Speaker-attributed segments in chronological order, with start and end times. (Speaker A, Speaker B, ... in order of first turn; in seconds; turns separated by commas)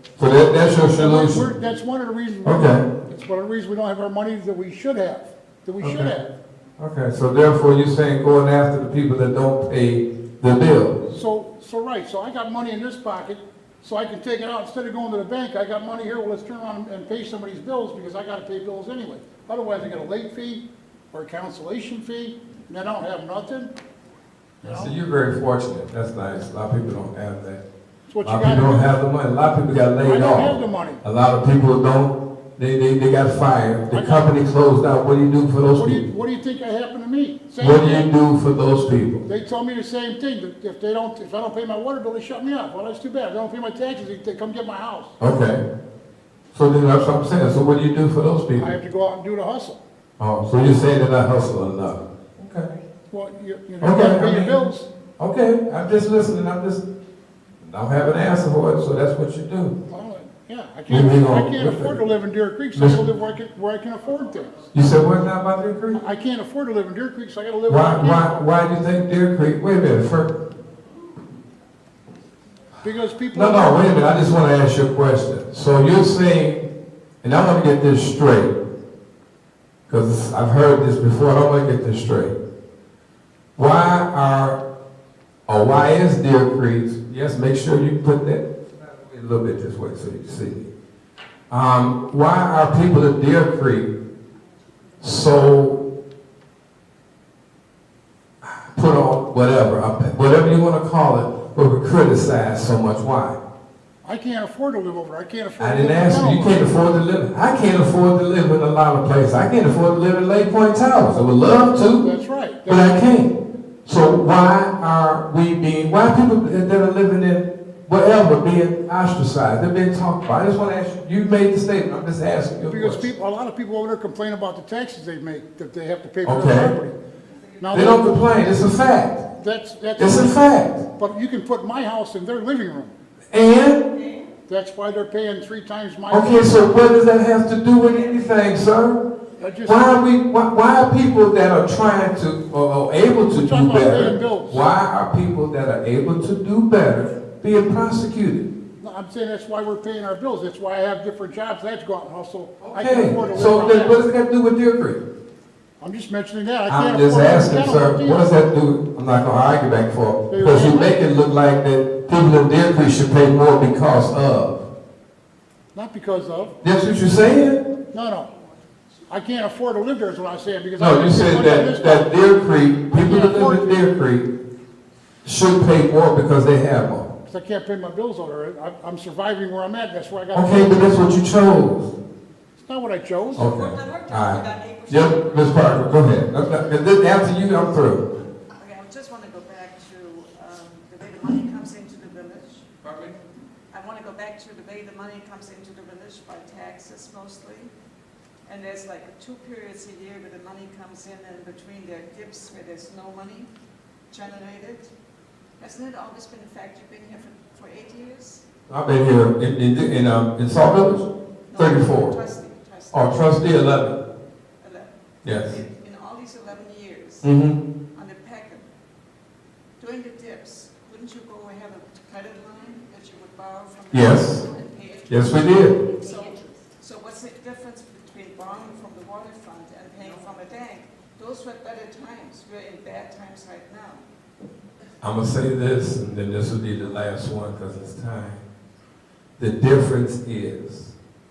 Speaker A: 0.2-1.4, Speaker B: 0.9-6.3, Speaker A: 2.4-2.8, Speaker A: 5.8-6.1, Speaker A: 6.8-11.1, Speaker B: 11.1-23.7, Speaker B: 24.6-24.9, Speaker A: 24.6-27.6, Speaker B: 28.1-28.9, Speaker A: 28.2-36.1, Speaker B: 30.0-31.0, Speaker B: 33.9-34.3, Speaker B: 35.7-38.1, Speaker A: 37.6-39.2, Speaker B: 39.2-45.1, Speaker A: 45.2-45.6, Speaker A: 46.5-48.7, Speaker B: 48.5-49.8, Speaker A: 50.2-52.7, Speaker B: 53.1-54.9, Speaker A: 53.8-54.5, Speaker A: 55.2-56.8, Speaker A: 57.6-59.7, Speaker B: 59.9-64.7, Speaker A: 60.9-62.0, Speaker A: 62.7-63.0, Speaker A: 64.7-66.0, Speaker B: 65.9-68.5, Speaker A: 67.7-70.3, Speaker B: 72.8-74.0, Speaker A: 73.3-76.7, Speaker A: 77.2-78.5, Speaker A: 79.9-82.3, Speaker A: 83.5-84.6, Speaker A: 85.5-90.7, Speaker A: 91.5-93.9, Speaker A: 95.0-95.8, Speaker A: 98.4-103.4, Speaker B: 104.0-106.6, Speaker A: 105.6-112.0, Speaker B: 112.0-113.0, Speaker A: 112.7-113.3, Speaker A: 113.8-123.0, Speaker B: 122.7-126.9, Speaker A: 126.2-126.7, Speaker C: 127.3-128.1, Speaker B: 127.6-128.3, Speaker A: 127.7-129.2, Speaker B: 129.3-130.4, Speaker A: 130.0-130.8, Speaker B: 131.0-132.9, Speaker A: 133.3-133.8, Speaker C: 133.9-134.3, Speaker B: 134.5-136.8, Speaker A: 136.1-139.0, Speaker C: 137.8-138.2, Speaker B: 139.4-140.0, Speaker A: 139.6-148.5, Speaker B: 143.3-144.6, Speaker B: 148.8-154.0, Speaker A: 152.6-155.0, Speaker C: 153.6-154.0, Speaker B: 155.8-158.3, Speaker A: 156.7-164.7, Speaker B: 160.3-161.0, Speaker B: 165.7-166.5, Speaker A: 166.6-167.6, Speaker B: 167.9-168.3, Speaker B: 169.1-172.2, Speaker A: 170.8-174.3, Speaker B: 172.9-173.8, Speaker A: 175.2-177.1, Speaker B: 177.3-181.2, Speaker A: 180.3-181.9, Speaker B: 182.6-183.5, Speaker C: 183.3-185.8, Speaker A: 183.4-188.0, Speaker C: 188.5-192.8, Speaker A: 192.8-193.1, Speaker C: 193.7-197.7, Speaker C: 198.4-203.5, Speaker C: 204.1-204.9, Speaker C: 205.6-208.4, Speaker A: 208.7-212.2, Speaker C: 211.5-213.4, Speaker A: 212.9-214.0, Speaker C: 214.6-217.3, Speaker A: 215.2-215.6, Speaker A: 217.2-217.6, Speaker C: 217.9-218.6, Speaker C: 219.8-234.0, Speaker A: 223.9-224.4, Speaker A: 225.1-225.8, Speaker A: 235.0-238.4, Speaker A: 239.4-240.9